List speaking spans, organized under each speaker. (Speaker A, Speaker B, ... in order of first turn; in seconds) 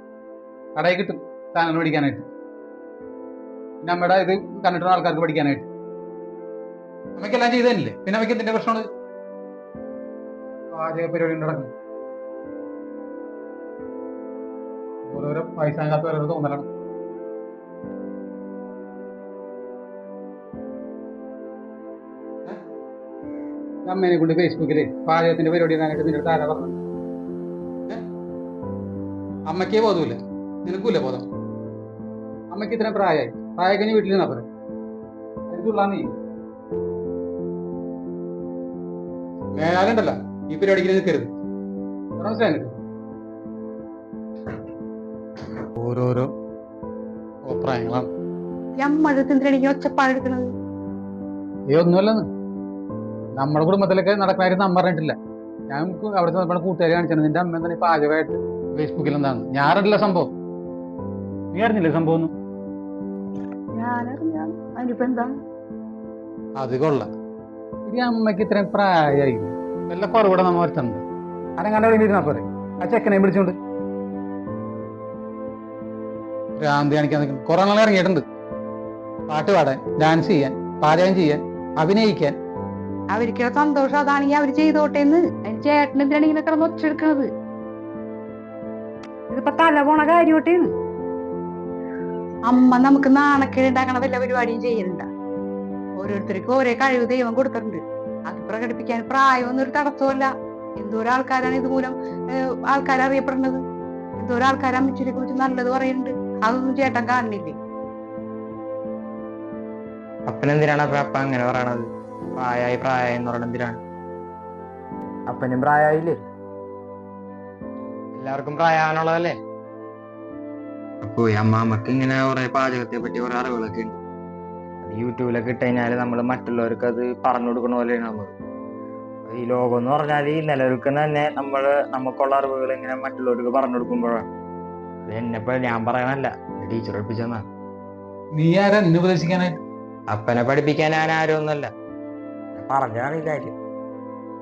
Speaker A: 0.8-2.3, 3.8-5.7, 7.2-8.9, 10.7-11.7, 15.1-16.7, 23.9-26.8, 29.5-31.3, 32.5-34.5, 35.5-36.1, 39.5-41.3, 42.2-42.8, 45.8-46.3, 47.5-48.1, 51.7-52.2, 53.4-55.2, 55.7-60.3, 61.5-62.3, 66.6-67.1, 67.9-71.0, 71.6-73.6, 76.6-78.2, 79.3-82.4, 138.3-139.6
Speaker B: 48.8-50.5, 63.8-65.3, 83.1-87.3, 89.3-90.7, 92.5-95.0, 96.0-103.6, 104.2-107.6
Speaker C: 110.3-113.8, 115.3-116.2, 118.2-119.4, 121.0-124.0, 124.8-128.3, 129.3-134.3, 135.1-137.5, 140.1-141.7, 142.6-143.6